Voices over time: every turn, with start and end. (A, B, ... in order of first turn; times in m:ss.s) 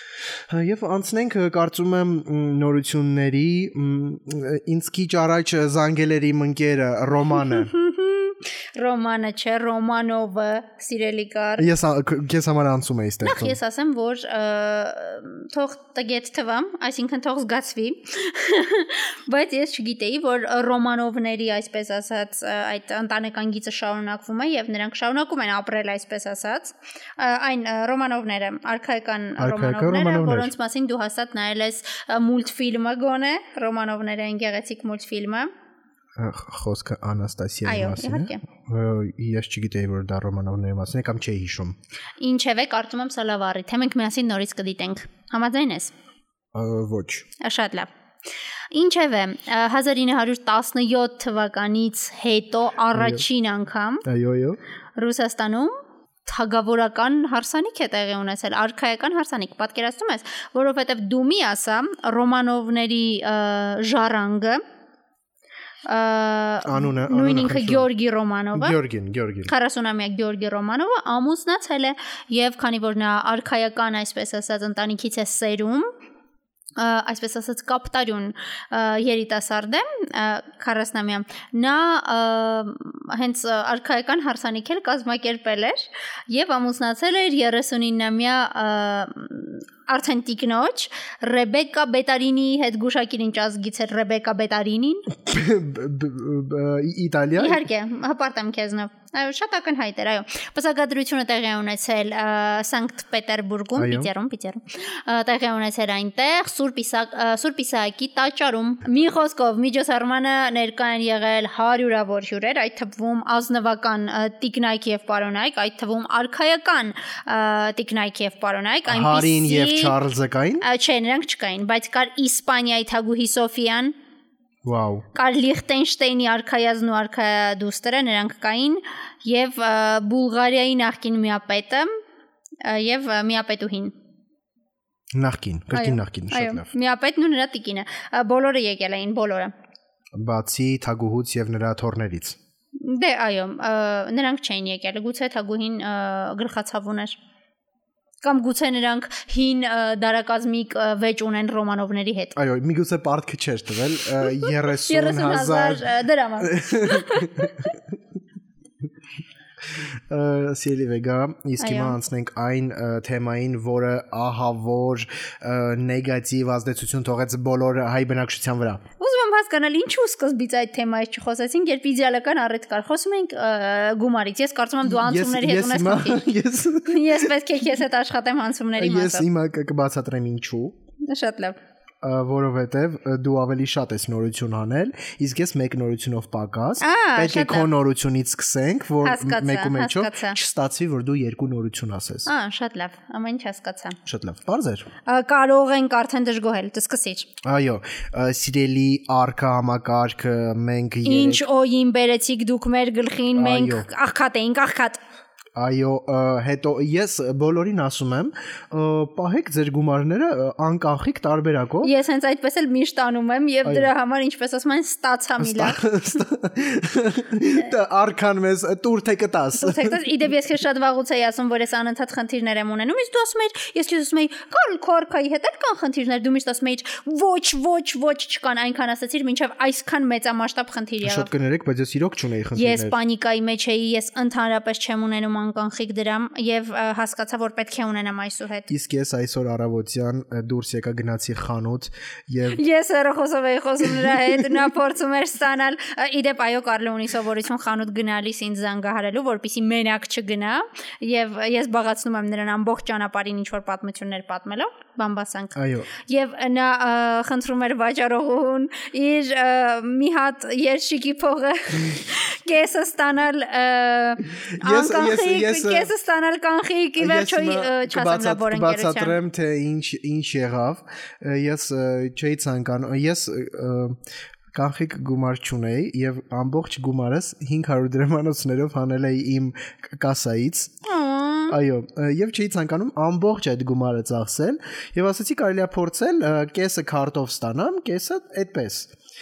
0:00.5-0:07.7 A
0:07.4-0:11.7 B
0:11.6-0:13.6 A
0:13.2-0:35.5 B
0:29.4-0:30.5 A
0:36.2-0:41.8 A
0:37.6-0:38.4 B
0:42.2-0:45.9 B
0:46.5-0:47.3 A
0:47.4-0:47.9 B
0:48.7-0:54.1 B
0:52.9-0:53.2 A
0:54.0-0:54.6 A
0:55.0-0:55.7 B
0:56.3-1:04.6 B
1:05.9-1:08.8 B
1:06.6-1:07.9 A
1:08.6-1:09.5 A
1:09.5-1:15.9 B
1:16.8-1:35.1 B
1:35.1-1:37.6 A
1:37.4-2:00.0 B
1:43.8-1:44.1 A
1:58.9-2:00.6 A
2:00.6-2:03.9 B
2:04.6-2:05.1 A
2:05.2-2:11.9 B
2:12.6-2:13.9 B
2:15.2-2:16.7 A
2:15.7-2:19.5 B
2:20.2-2:22.4 A
2:22.8-2:27.2 B
2:28.2-2:32.4 B
2:32.4-2:35.9 A
2:34.4-2:37.7 B
2:36.4-2:37.8 A
2:39.7-2:48.8 A
2:41.6-2:42.0 B
2:49.0-2:56.3 B
2:54.8-2:57.3 A
2:56.9-2:59.3 B
2:58.8-3:00.8 A
3:01.0-3:01.6 B
3:02.0-3:12.3 A
3:06.8-3:07.7 B
3:09.0-3:10.4 B
3:12.3-3:14.0 B
3:14.1-3:14.9 A
3:15.0-3:17.3 B
3:17.4-3:21.4 A
3:21.0-3:25.0 B
3:23.3-3:23.9 A
3:25.6-3:31.9 A
3:31.8-3:35.9 B
3:33.6-3:33.9 A
3:35.4-3:40.0 A
3:39.6-3:51.3 B
3:51.0-3:53.0 A
3:52.6-3:58.7 B
3:58.7-4:02.6 A
4:02.5-4:29.2 B
4:15.6-4:15.9 A
4:24.6-4:25.9 A
4:27.0-4:34.0 A
4:34.5-4:40.7 A
4:40.8-4:41.6 B
4:41.5-4:48.9 A